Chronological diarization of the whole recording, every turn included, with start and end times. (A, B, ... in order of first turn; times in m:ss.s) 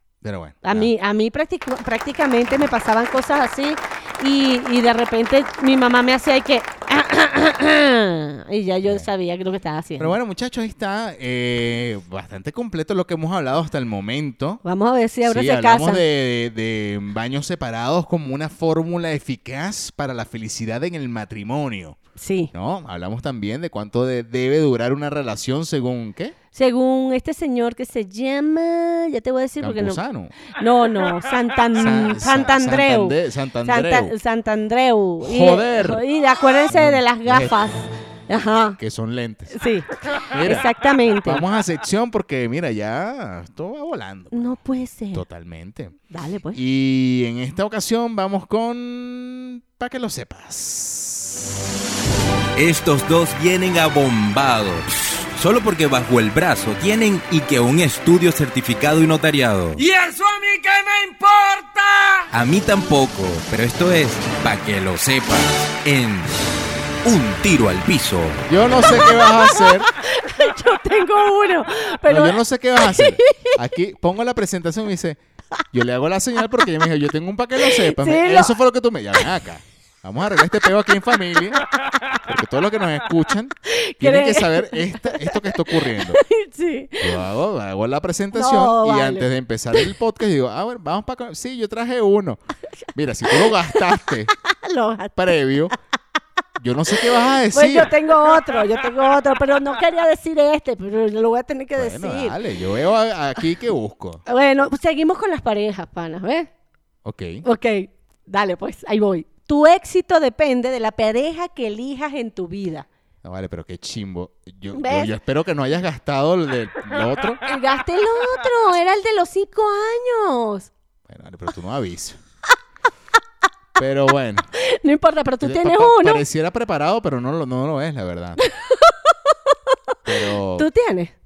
0:00.2-0:00.9 A
0:00.6-0:10.2 B
0:10.0-0:14.6 A
0:14.6-0:16.0 B
0:15.2-0:22.0 A
0:22.2-0:22.5 B
0:22.5-0:26.4 A
0:26.5-0:30.0 B
0:29.6-0:30.3 A
0:30.6-0:38.8 B
0:31.8-0:34.1 A
0:35.2-0:36.0 A
0:36.7-0:37.5 A
0:38.8-0:39.6 A
0:39.5-0:39.9 B
0:40.3-0:40.7 A
0:40.4-0:41.4 B
0:41.2-0:44.6 A
0:44.3-0:45.2 B
0:45.1-0:46.0 A
0:46.1-0:46.6 B
0:46.5-0:51.6 A
0:52.6-0:59.8 C
0:59.8-1:02.2 D
1:02.3-1:06.3 C
1:07.0-1:08.4 C
1:08.5-1:09.9 A
1:08.8-1:13.6 B
1:12.1-1:15.2 A
1:15.7-1:21.6 A
1:17.6-1:18.6 B
1:22.2-1:26.2 A
1:23.7-1:27.2 B
1:27.0-1:32.4 A
1:28.3-1:29.9 B
1:32.9-1:34.3 A
1:33.3-1:33.8 B
1:34.4-1:35.2 B
1:35.2-1:35.7 A
1:36.6-1:37.9 A
1:37.5-1:42.4 B
1:41.8-1:44.2 A
1:44.3-1:46.5 B
1:47.0-1:47.4 A
1:47.4-1:52.9 B
1:53.2-1:57.4 A
1:54.7-1:55.1 B
1:57.5-2:00.7 B
2:01.1-2:02.2 A
2:03.8-2:04.5 A
2:04.6-2:06.2 B
2:05.4-2:08.4 A
2:08.4-2:09.9 B
2:10.1-2:10.7 A
2:10.6-2:11.1 B